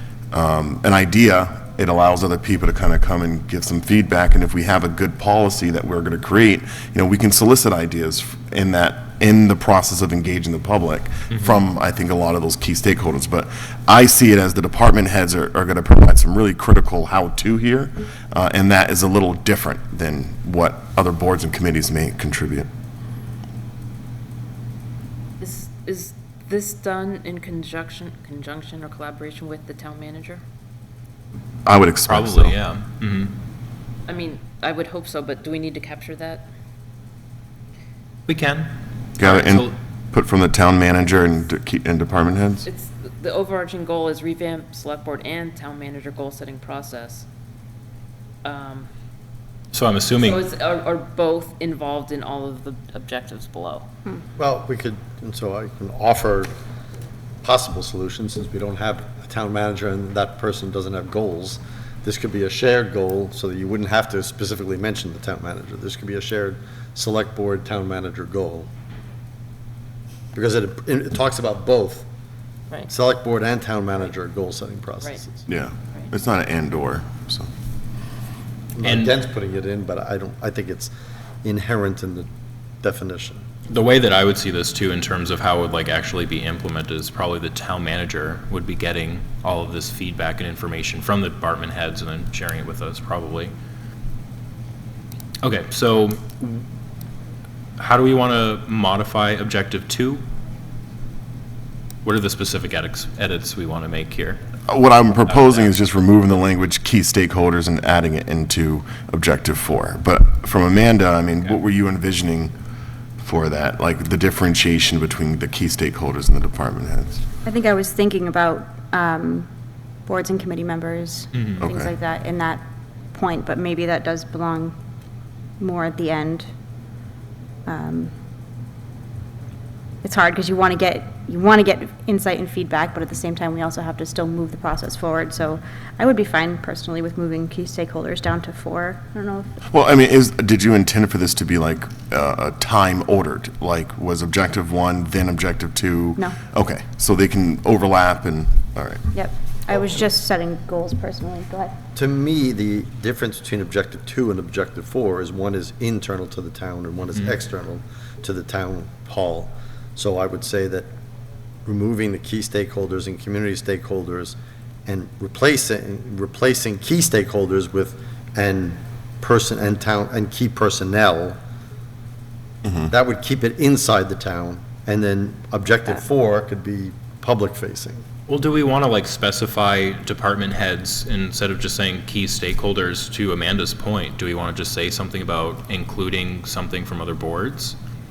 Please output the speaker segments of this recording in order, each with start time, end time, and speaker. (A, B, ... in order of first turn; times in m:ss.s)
0:00.3-0:22.7 A
0:11.3-0:11.6 B
0:25.4-0:30.4 C
0:31.6-0:32.6 A
0:32.1-0:33.4 B
0:34.1-0:36.5 C
0:38.3-0:39.8 B
0:39.2-0:42.7 A
0:42.6-0:47.2 C
0:48.4-0:48.9 C
0:49.7-0:50.4 B
0:50.2-0:53.9 C
0:54.4-0:56.5 D
0:57.4-1:08.7 D
1:10.3-1:12.1 D
1:12.9-1:15.4 D
1:15.5-1:17.5 A
1:18.8-1:20.9 D
1:18.8-1:19.1 B
1:21.4-1:22.3 D
1:22.8-1:23.4 D
1:23.7-1:33.5 B
1:35.4-1:36.6 B
1:37.8-1:40.2 B
1:42.0-1:44.4 B
1:44.7-1:52.5 A
1:45.2-1:45.7 B
1:53.2-1:57.2 A
1:57.4-1:59.5 E
2:00.1-2:02.6 E
2:01.3-2:01.6 B
2:01.6-2:01.9 A
2:03.1-2:04.8 E
2:05.6-2:06.5 E
2:07.7-2:08.1 E
2:10.0-2:19.6 E
2:19.7-2:29.1 A
2:29.1-2:31.8 E
2:31.9-2:40.9 D
2:41.6-2:51.4 D
2:52.6-2:52.9 A
2:52.9-2:58.0 D
2:58.3-3:07.8 B